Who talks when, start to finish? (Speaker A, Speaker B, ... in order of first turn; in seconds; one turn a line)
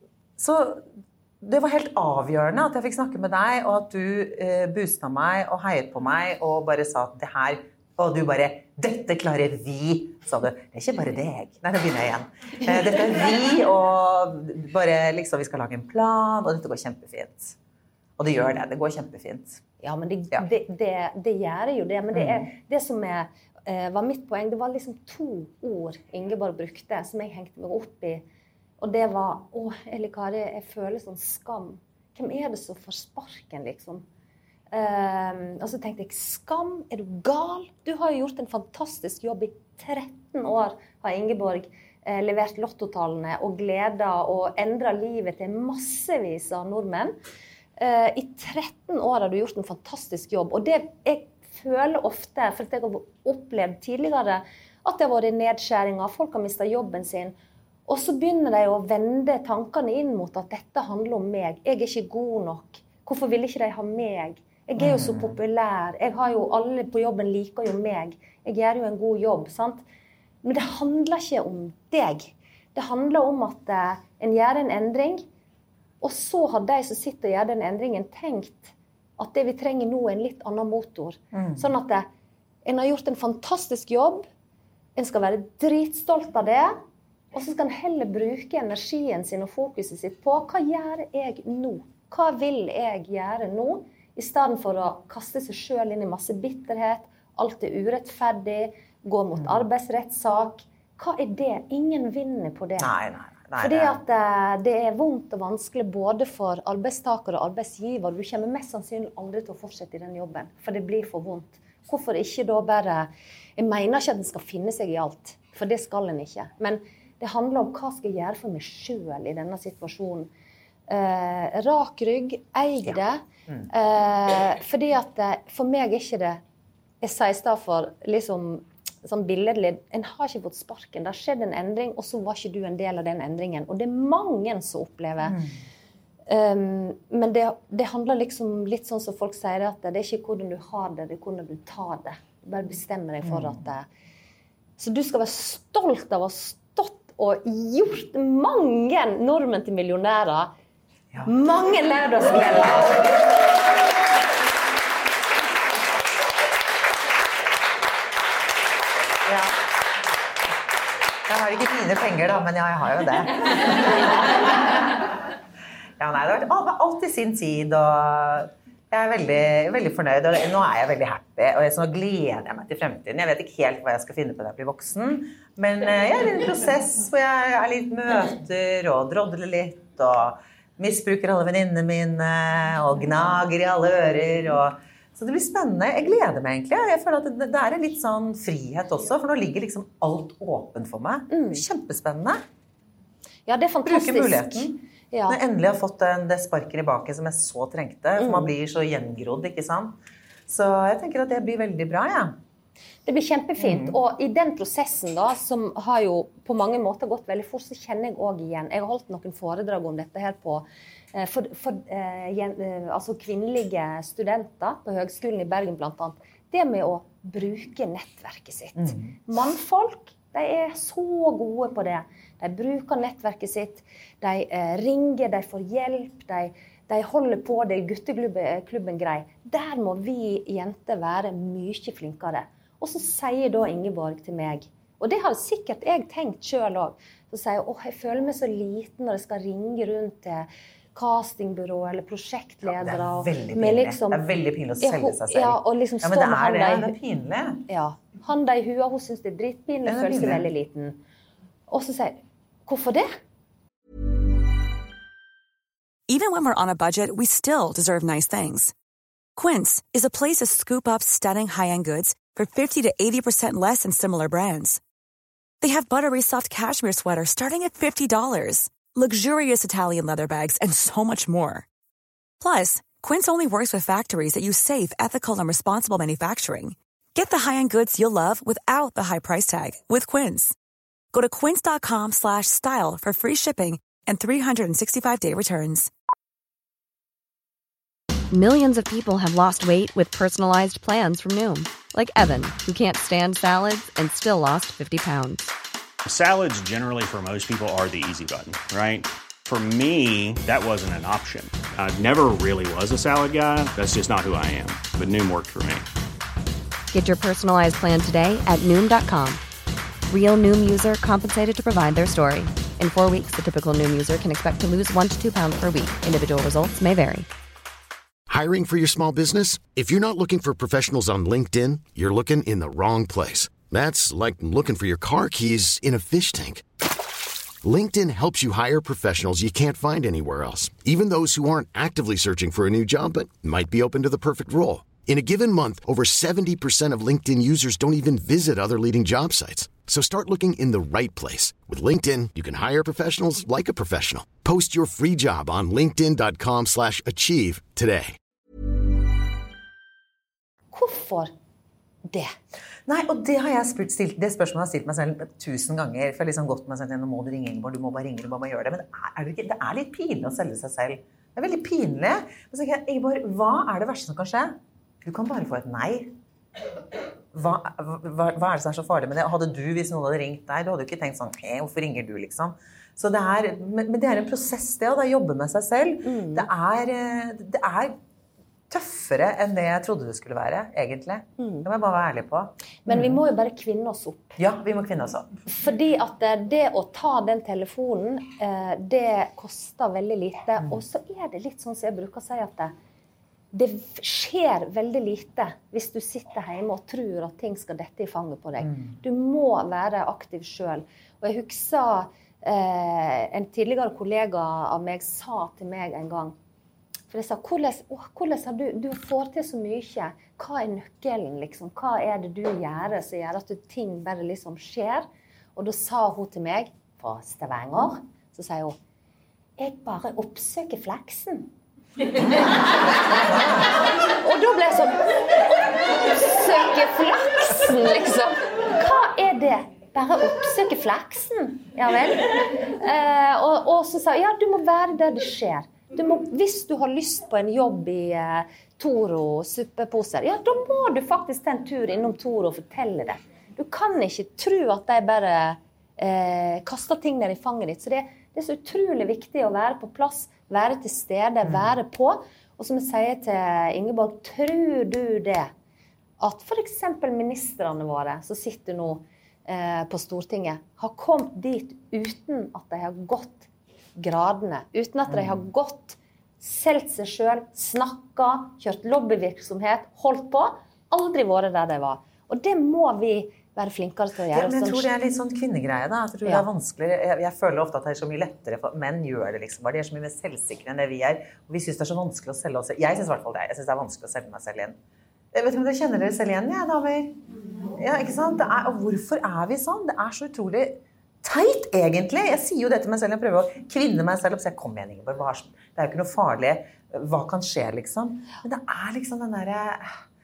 Speaker A: 0.4-0.9
Speaker A: 1.4-17.6
Speaker A: 18.2-19.6
Speaker B: 19.8-28.2
Speaker A: 22.1-22.5
Speaker B: 28.8-34.0
Speaker B: 34.7-47.1
Speaker B: 47.8-57.3
Speaker B: 57.9-69.8
Speaker A: 64.8-65.4
Speaker B: 70.4-75.2
Speaker B: 76.0-82.0
Speaker A: 81.3-81.7
Speaker B: 82.7-84.3
Speaker B: 85.0-86.8
Speaker B: 87.3-102.9
Speaker A: 99.4-99.6
Speaker A: 102.8-104.0
Speaker B: 103.6-120.3
Speaker B: 120.9-126.4
Speaker B: 127.0-135.4
Speaker B: 136.3-143.9
Speaker A: 143.2-143.6
Speaker B: 144.8-150.5
Speaker B: 151.2-153.0
Speaker A: 159.3-159.6
Speaker A: 161.3-165.0
Speaker A: 166.0-192.4
Speaker B: 191.3-191.7
Speaker B: 193.5-195.4
Speaker A: 193.8-202.4
Speaker B: 198.2-198.5
Speaker B: 203.1-244.2
Speaker A: 203.6-204.0
Speaker A: 218.8-219.2
Speaker A: 242.7-247.6
Speaker B: 244.8-246.9
Speaker B: 247.7-251.0
Speaker A: 249.9-250.5
Speaker B: 251.7-253.2
Speaker C: 256.1-258.7
Speaker C: 259.4-264.8
Speaker C: 265.6-271.7
Speaker C: 272.4-280.6
Speaker C: 281.1-285.9
Speaker D: 288.3-295.5
Speaker E: 296.1-305.9
Speaker D: 306.9-309.4
Speaker D: 310.1-317.3
Speaker F: 318.3-326.6
Speaker F: 327.6-348.2
Speaker B: 350.7-351.3
Speaker A: 352.9-366.1
Speaker A: 367.3-378.0
Speaker B: 376.0-376.5
Speaker A: 378.7-383.2
Speaker B: 381.4-381.7
Speaker B: 382.9-384.4
Speaker A: 384.4-385.3
Speaker B: 385.5-392.7
Speaker B: 393.5-406.4
Speaker A: 398.6-399.0
Speaker B: 407.1-418.8
Speaker B: 419.6-421.5
Speaker A: 422.1-423.8
Speaker B: 424.2-425.1
Speaker B: 425.7-455.5
Speaker A: 451.4-451.7
Speaker B: 456.2-474.9
Speaker A: 465.1-465.4
Speaker A: 474.3-484.8
Speaker A: 485.3-487.2
Speaker A: 487.7-500.0